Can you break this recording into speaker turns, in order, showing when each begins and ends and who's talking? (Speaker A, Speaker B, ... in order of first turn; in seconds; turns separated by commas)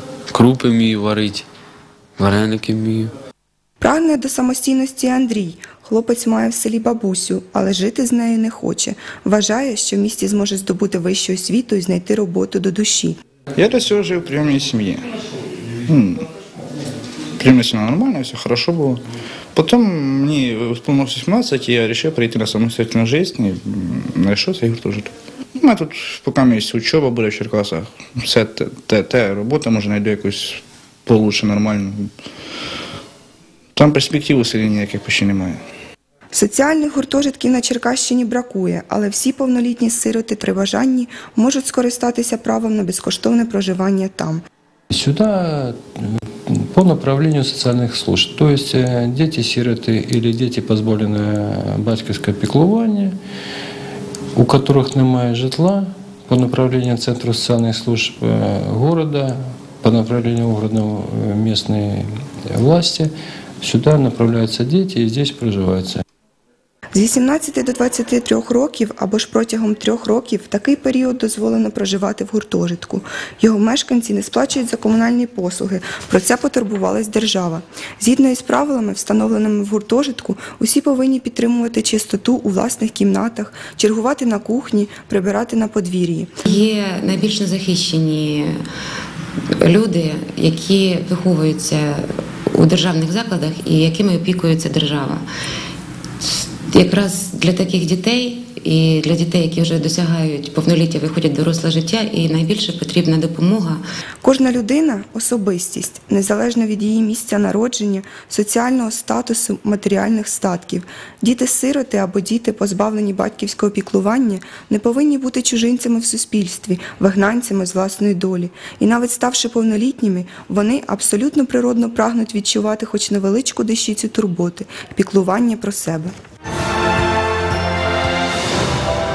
Speaker A: 0.3-1.4, Speaker A: 2.2-3.1, Speaker B: 3.8-13.2, Speaker C: 13.6-15.1, Speaker C: 15.9-16.2, Speaker C: 17.4-19.0, Speaker C: 19.5-32.1, Speaker C: 33.8-35.6, Speaker B: 36.3-44.4, Speaker D: 44.9-53.1, Speaker D: 54.4-63.1, Speaker D: 63.6-66.0, Speaker B: 66.9-86.3, Speaker E: 86.5-88.5, Speaker E: 89.6-95.2, Speaker E: 96.2-103.8, Speaker B: 104.2-126.1